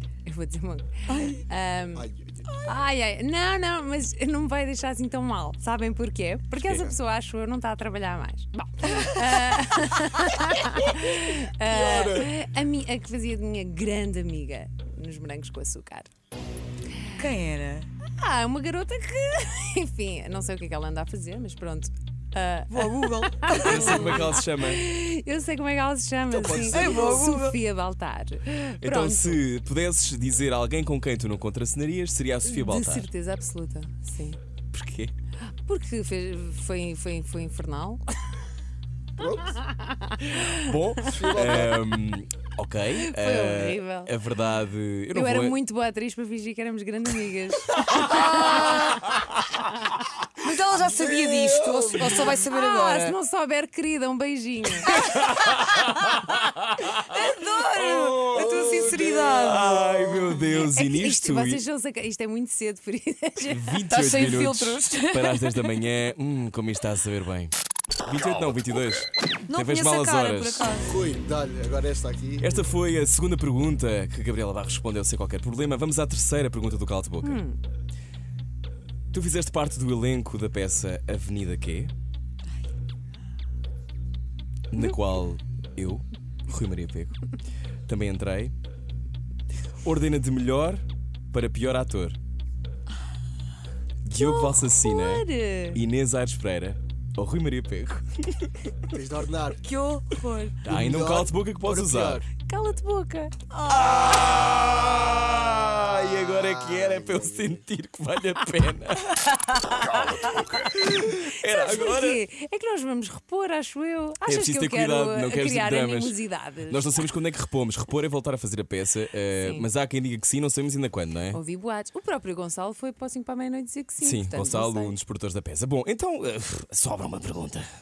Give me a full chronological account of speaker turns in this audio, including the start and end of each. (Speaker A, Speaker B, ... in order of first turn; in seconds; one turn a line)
Speaker A: 0.2-2.1
Speaker B: 1.1-1.4
Speaker C: 1.9-2.5
Speaker A: 2.6-16.1
Speaker D: 6.6-6.9
Speaker C: 11.6-12.3
Speaker B: 17.1-17.9
Speaker A: 18.0-29.4
Speaker B: 22.7-24.2
Speaker D: 23.6-24.8
Speaker C: 26.3-27.2
Speaker D: 26.5-27.0
Speaker B: 26.6-27.6
Speaker D: 28.8-33.1
Speaker A: 32.4-34.4
Speaker D: 34.7-35.1
Speaker A: 35.5-38.0
Speaker C: 39.2-39.6
Speaker A: 39.5-41.2
Speaker D: 40.5-45.5
Speaker C: 41.1-41.8
Speaker A: 42.9-44.1
Speaker A: 45.1-48.8
Speaker B: 48.0-49.1
Speaker B: 50.4-53.1
Speaker C: 50.8-52.2
Speaker A: 52.2-55.0
Speaker B: 56.9-59.9
Speaker D: 57.8-58.5
Speaker C: 58.2-60.3
Speaker D: 59.3-61.6
Speaker A: 60.4-63.8
Speaker D: 63.5-67.5
Speaker B: 63.9-65.8
Speaker D: 68.0-70.7
Speaker B: 69.5-71.0
Speaker C: 70.8-72.6
Speaker D: 72.4-77.4
Speaker A: 77.2-77.6
Speaker D: 79.1-81.9
Speaker D: 84.7-87.3
Speaker D: 87.9-88.5
Speaker D: 89.8-92.2
Speaker D: 94.0-98.8
Speaker A: 94.1-95.8
Speaker C: 98.9-99.6
Speaker B: 99.6-100.6
Speaker D: 100.6-102.2
Speaker C: 100.7-102.2
Speaker A: 102.4-103.3
Speaker B: 103.5-104.2
Speaker D: 103.7-109.7
Speaker C: 105.5-107.6
Speaker A: 109.7-117.0
Speaker D: 110.3-112.2
Speaker D: 114.2-121.4
Speaker A: 119.3-119.7
Speaker A: 121.3-124.9
Speaker D: 124.0-127.6